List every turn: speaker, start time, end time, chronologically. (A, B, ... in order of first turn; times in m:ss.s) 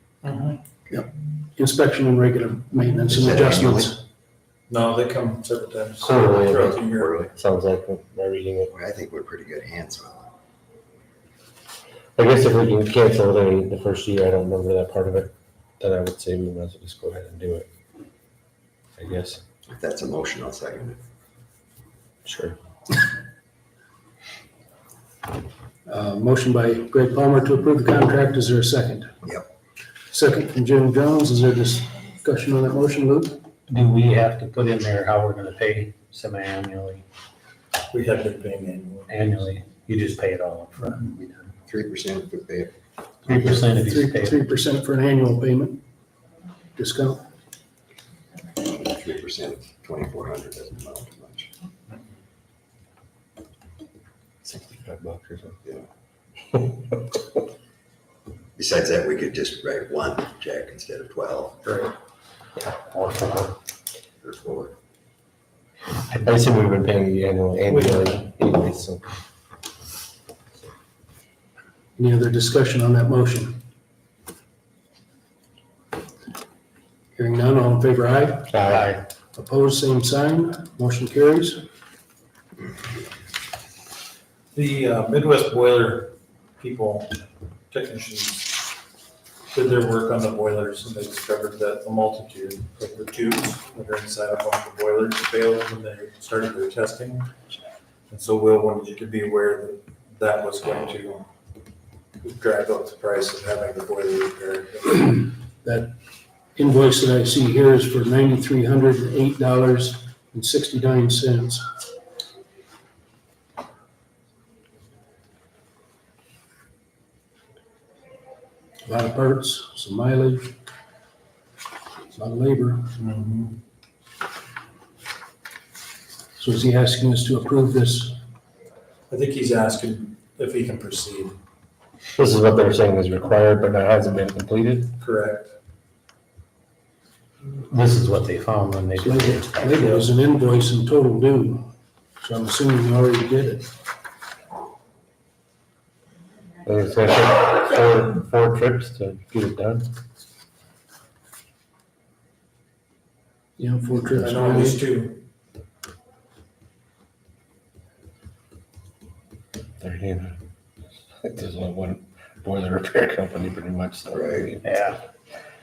0:00.2-0:00.6 A
0:01.6-0:04.0 B
0:03.1-0:03.9 C
0:04.7-0:07.3 A
0:06.0-0:08.7 D
0:06.6-0:07.3 C
0:08.7-0:10.3 C
0:12.2-0:17.7 D
0:19.0-0:19.4 D
0:19.7-0:21.0 C
0:22.2-0:22.5 D
0:25.8-0:29.2 B
0:30.1-0:33.4 B
0:33.7-0:37.0 E
0:37.9-0:39.2 A
0:39.1-0:41.5 E
0:41.7-0:42.7 C
0:43.2-0:44.4 E
0:43.3-0:45.8 B
0:46.8-0:47.2 B
0:48.6-0:51.5 C
0:54.4-0:55.6 D
0:58.6-1:01.7 C
1:02.6-1:03.5 E
1:04.2-1:04.7 C
1:06.1-1:09.0 D
1:07.7-1:08.2 A
1:12.0-1:13.6 B
1:17.2-1:18.6 B
1:18.5-1:18.9 D
1:18.7-1:19.0 E
1:19.3-1:21.6 B
1:24.5-1:28.6 A
1:29.5-1:37.3 A
1:38.1-1:41.3 A
1:42.2-1:45.3 A
1:45.6-1:45.9 B
1:46.5-1:51.6 B
1:58.8-2:00.6 B
2:02.1-2:02.9 B
2:03.0-2:03.6 A
2:06.4-2:08.2 B
2:09.1-2:11.4 A
2:12.2-2:14.9 D
2:15.0-2:15.5 A
2:17.7-2:19.6 E
2:19.0-2:23.7 B
2:19.8-2:20.1 A
2:26.6-2:29.9 D
2:33.6-2:34.9 B
2:34.1-2:35.2 A
2:39.8-2:40.4 D
2:41.2-2:44.6 D
2:44.1-2:44.5 C
2:44.6-2:45.0 E